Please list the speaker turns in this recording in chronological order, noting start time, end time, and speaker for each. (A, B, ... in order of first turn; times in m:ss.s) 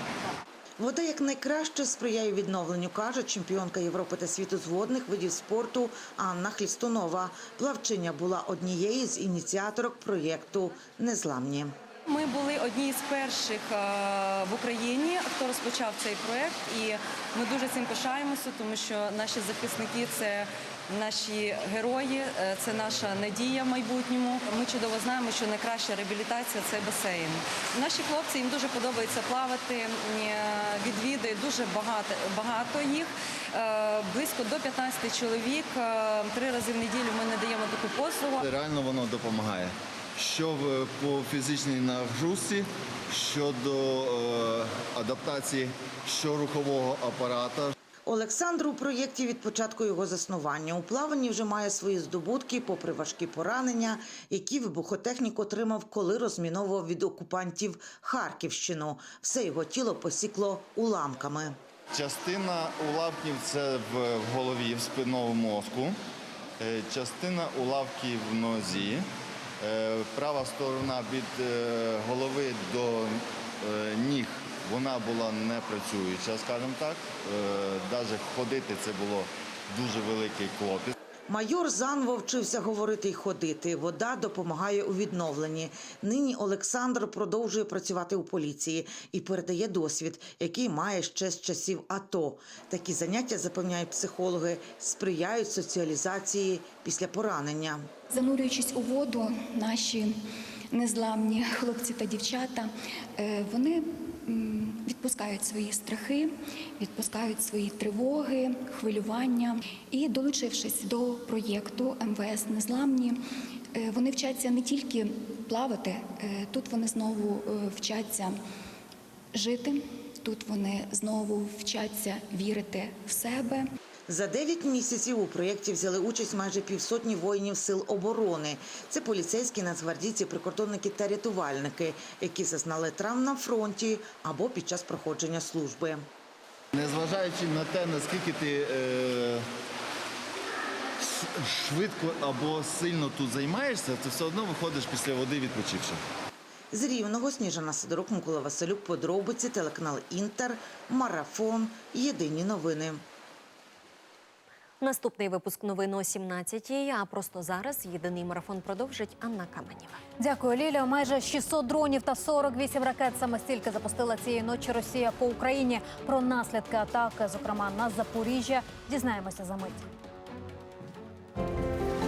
0:00.8-0:11.7 A
0:12.1-0:38.4 B
0:38.4-0:47.7 C
0:48.0-1:01.6 A
1:01.9-1:06.0 C
1:06.6-1:09.1 C
1:09.6-1:20.9 C
1:21.3-1:37.9 A
1:38.1-1:40.1 D
1:40.7-1:53.2 D
1:53.7-1:58.4 D
1:59.3-2:03.7 D
2:04.1-2:16.0 A
2:16.7-2:19.5 C
2:21.0-2:26.0 C
2:26.7-2:33.0 A
2:34.8-2:40.0 E
2:40.2-2:49.9 F